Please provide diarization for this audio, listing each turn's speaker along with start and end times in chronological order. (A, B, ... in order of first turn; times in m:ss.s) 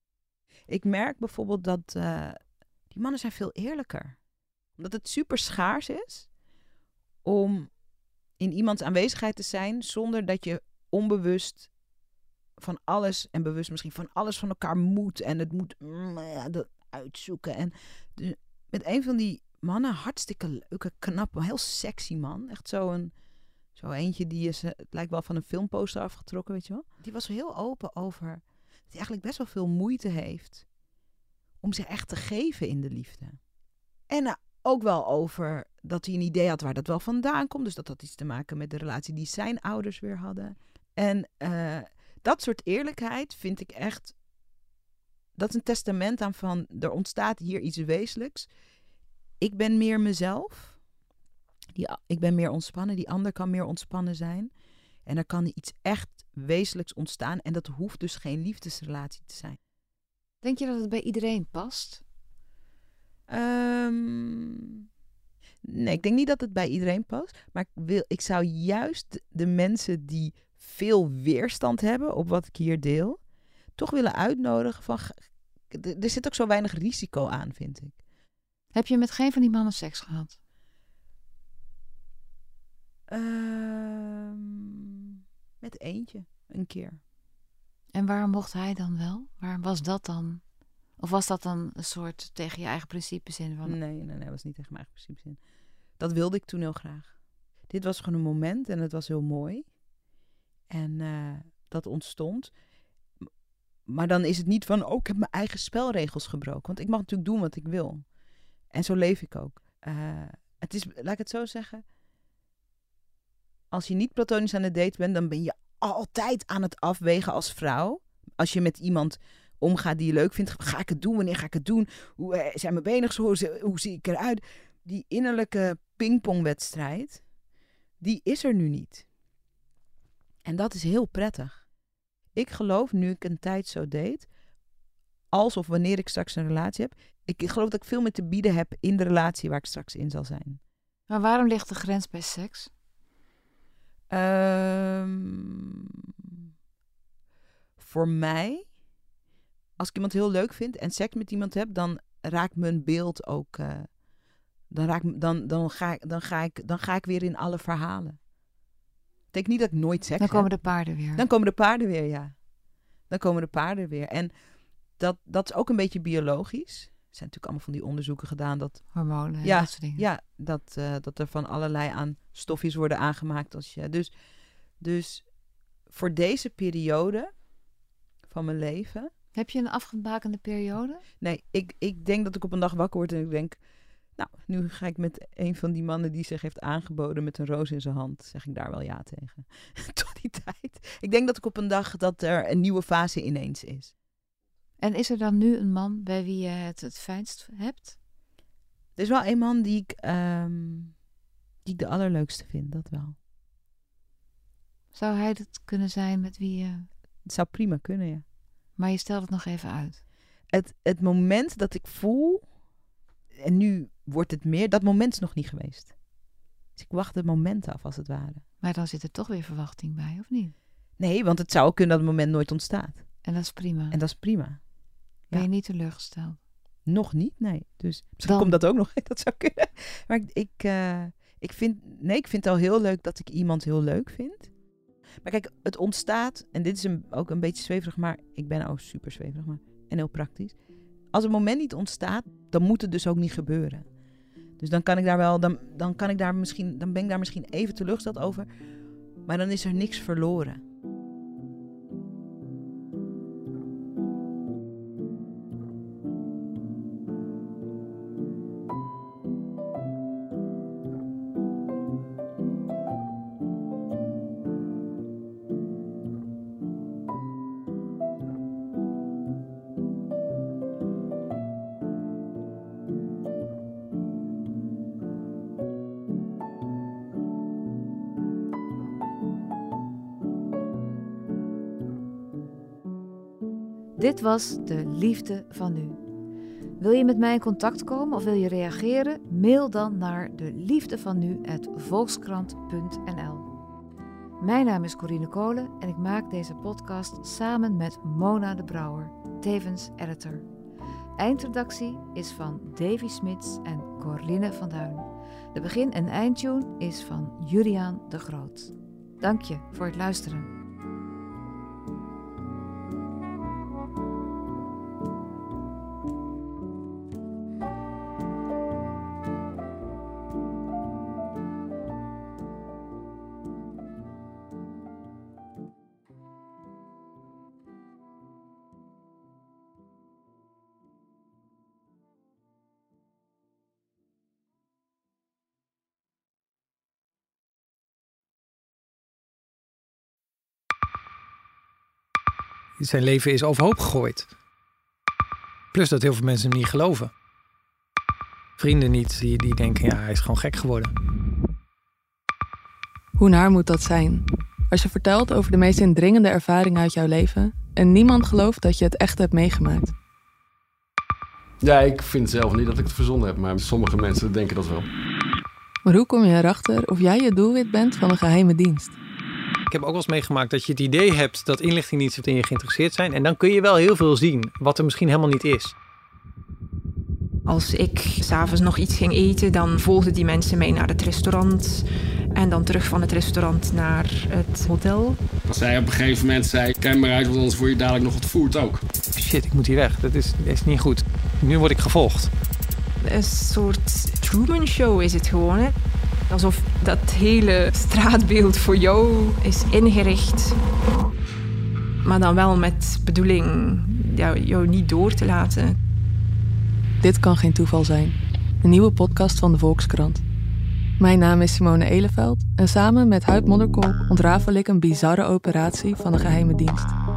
0:00.7-0:02.4 A
0:02.9-0:04.2 A
0:04.8-0:06.3 A
0:07.2-0:07.7 A
0:08.4-0:11.7 A
0:12.6-0:23.1 A
0:23.8-0:30.6 A
0:31.6-0:33.4 A
0:34.1-0:44.1 A
0:45.4-0:48.5 A
0:49.4-0:50.8 A
0:51.8-0:54.5 A
0:55.0-0:59.6 A
1:00.4-1:02.0 B
1:03.3-1:04.8 A
1:05.6-1:13.2 A
1:13.8-1:18.0 A
1:18.7-1:20.4 B
1:23.1-1:27.0 A
1:27.9-1:30.4 B
1:31.0-1:33.8 B
1:33.6-1:35.4 A
1:36.0-1:37.1 A
1:37.7-1:39.7 A
1:40.7-1:42.5 A
1:43.9-1:48.1 A
1:48.7-1:51.8 A
1:53.7-2:07.2 A
2:08.0-2:09.0 A
2:10.4-2:11.6 A
2:12.4-2:14.3 A
2:15.3-2:20.6 A
2:21.1-2:22.7 B
2:24.1-2:26.4 A
2:27.8-2:28.7 A
2:29.8-2:33.9 A
2:34.7-2:38.2 A
2:39.3-2:42.4 A
2:40.2-2:41.2 B
2:43.1-2:44.3 A
2:45.0-2:54.1 A
2:48.9-2:50.0 B
2:54.8-2:55.3 A
2:55.9-2:57.3 A
2:58.3-2:59.1 A
2:59.4-3:01.0 B
3:01.2-3:03.6 A
3:04.2-3:13.9 A
3:14.8-3:17.9 B
3:19.0-3:20.9 A
3:21.6-3:23.2 A
3:24.9-3:26.9 B
3:27.2-3:28.2 A
3:28.8-3:30.0 B
3:30.5-3:32.5 A
3:33.4-3:35.9 A
3:36.8-3:38.4 A
3:38.6-3:40.5 B
3:41.0-3:43.1 A
3:43.2-3:44.0 B
3:43.9-3:44.6 A
3:45.3-3:46.4 B
3:46.8-3:54.5 A
3:48.2-3:48.6 B
3:55.2-4:00.6 A
4:01.1-4:03.9 A
4:04.6-4:08.5 A
4:09.2-4:10.6 A
4:44.0-4:46.0 B
4:46.8-4:53.5 B
4:54.4-5:00.4 B
5:01.2-5:10.5 B
5:42.8-5:44.3 C
5:45.7-5:47.1 C
5:48.6-5:50.9 C
5:53.2-5:59.9 D
6:01.6-6:04.9 E
6:05.8-6:09.0 D
6:09.7-6:15.7 C
6:17.4-6:25.2 F
6:25.4-6:28.8 E
6:29.2-6:32.3 C
6:33.0-6:35.7 F
6:36.3-6:40.6 F
6:42.0-6:45.8 F
6:47.0-6:50.2 D
6:51.0-6:56.9 D